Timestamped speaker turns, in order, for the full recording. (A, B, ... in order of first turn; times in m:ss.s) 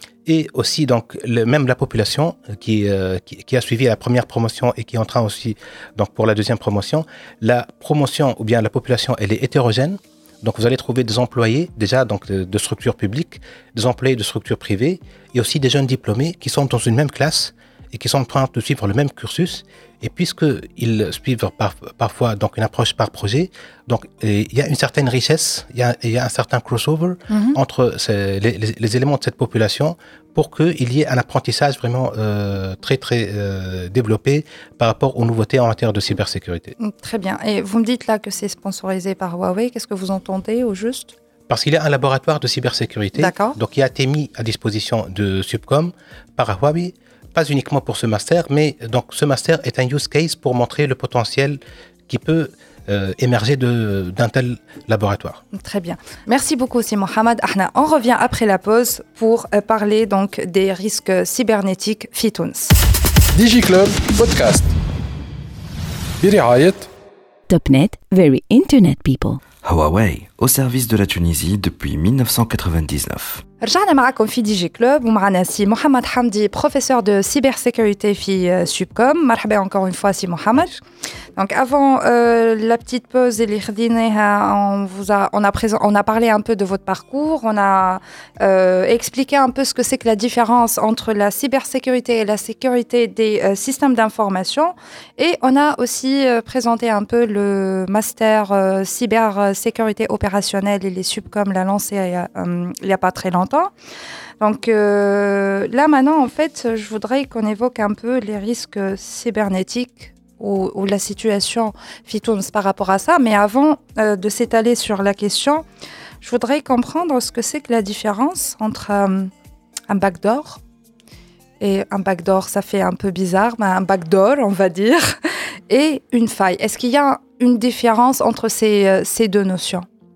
0:00.2-0:36.8 A
0:27.3-0:27.6 B
0:36.8-0:41.1 B
0:41.5-0:55.4 A
0:43.2-0:43.6 B
0:55.5-1:02.8 B
1:03.3-1:04.8 C
1:06.2-1:06.9 C
1:07.5-1:09.4 D
1:09.6-1:13.4 E
1:13.6-1:20.8 B
1:21.4-1:43.7 B
1:44.4-1:55.6 B
1:56.2-1:59.3 B
1:59.9-2:00.6 B
2:01.6-2:09.9 B